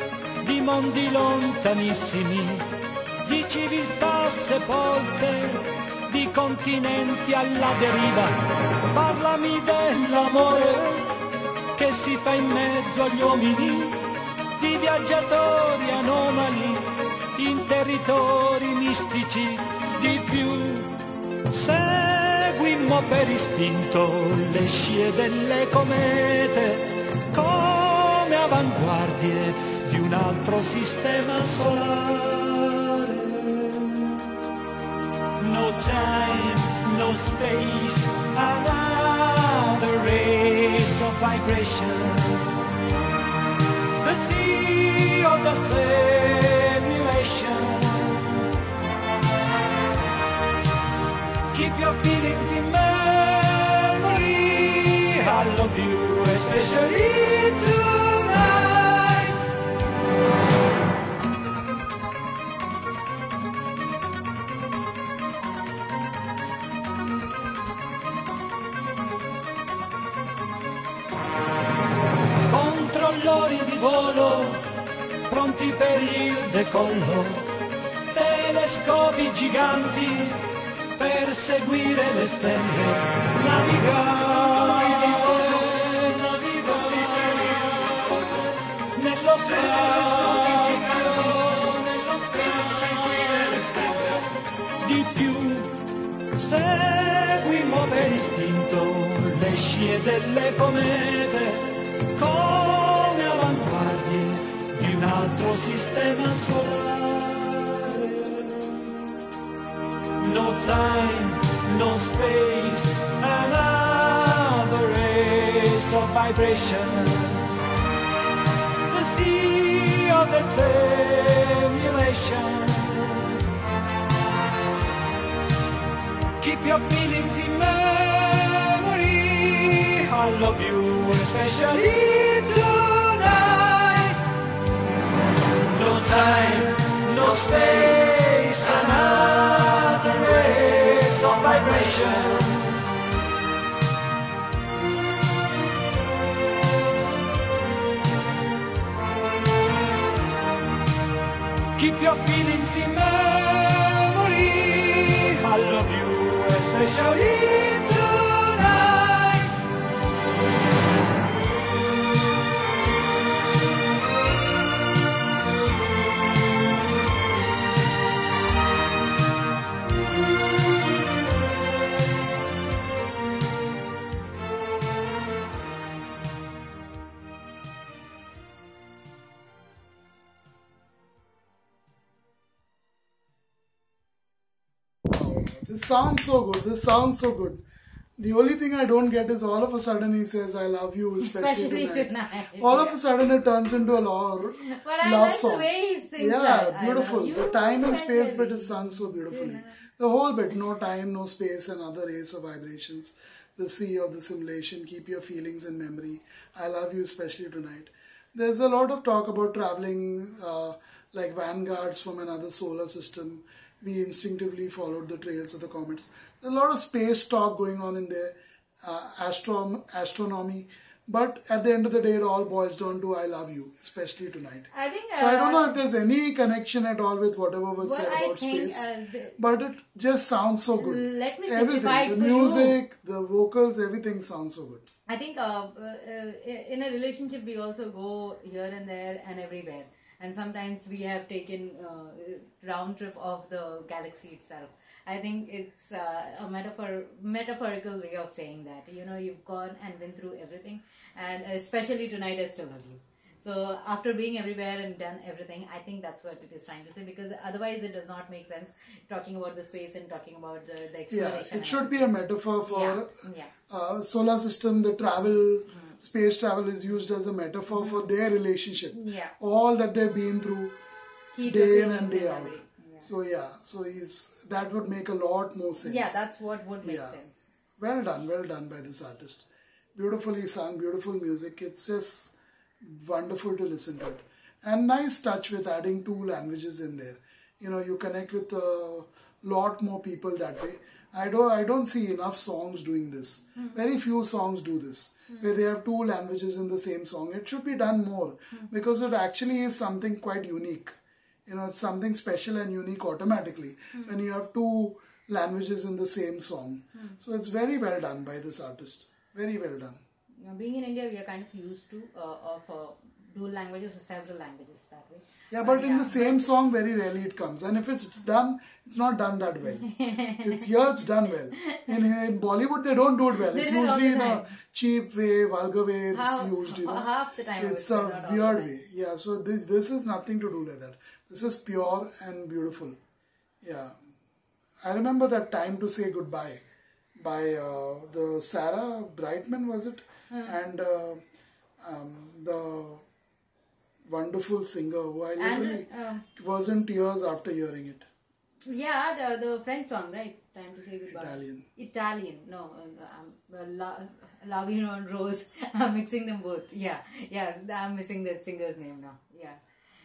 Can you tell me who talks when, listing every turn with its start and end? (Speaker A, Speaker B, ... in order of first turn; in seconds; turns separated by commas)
Speaker A: 0.4-2.7, Speaker A: 3.2-11.1, Speaker A: 11.8-14.0, Speaker A: 14.6-21.0, Speaker A: 21.5-34.2, Speaker A: 35.4-42.6, Speaker A: 44.0-48.5, Speaker A: 51.5-59.5, Speaker A: 72.5-74.7, Speaker A: 75.3-77.5, Speaker A: 78.1-94.3, Speaker A: 94.8-95.8, Speaker A: 96.3-108.8, Speaker A: 110.2-117.6, Speaker A: 118.8-123.5, Speaker A: 126.4-134.4, Speaker A: 135.7-142.9, Speaker A: 151.8-159.6, Speaker B: 185.1-187.6, Speaker B: 188.2-234.8, Speaker C: 191.2-193.0, Speaker C: 194.6-199.8, Speaker C: 224.7-225.8, Speaker C: 227.8-229.4, Speaker C: 230.8-232.8, Speaker C: 235.1-261.9, Speaker B: 261.1-263.1, Speaker C: 262.7-263.5, Speaker B: 263.7-270.7, Speaker C: 268.9-269.3, Speaker C: 271.3-273.1, Speaker B: 271.4-276.2, Speaker C: 275.8-277.4, Speaker B: 276.8-277.2, Speaker B: 277.8-300.9, Speaker B: 301.4-310.0, Speaker C: 310.4-316.5, Speaker B: 315.5-333.0, Speaker C: 319.8-320.6, Speaker C: 321.6-322.0, Speaker C: 323.4-324.5, Speaker C: 326.1-328.8, Speaker B: 333.6-333.9, Speaker B: 334.8-336.6, Speaker B: 337.2-341.2, Speaker C: 340.3-340.6, Speaker B: 341.8-343.0, Speaker B: 344.1-348.1, Speaker C: 345.4-346.2, Speaker C: 348.6-359.6, Speaker B: 351.1-351.6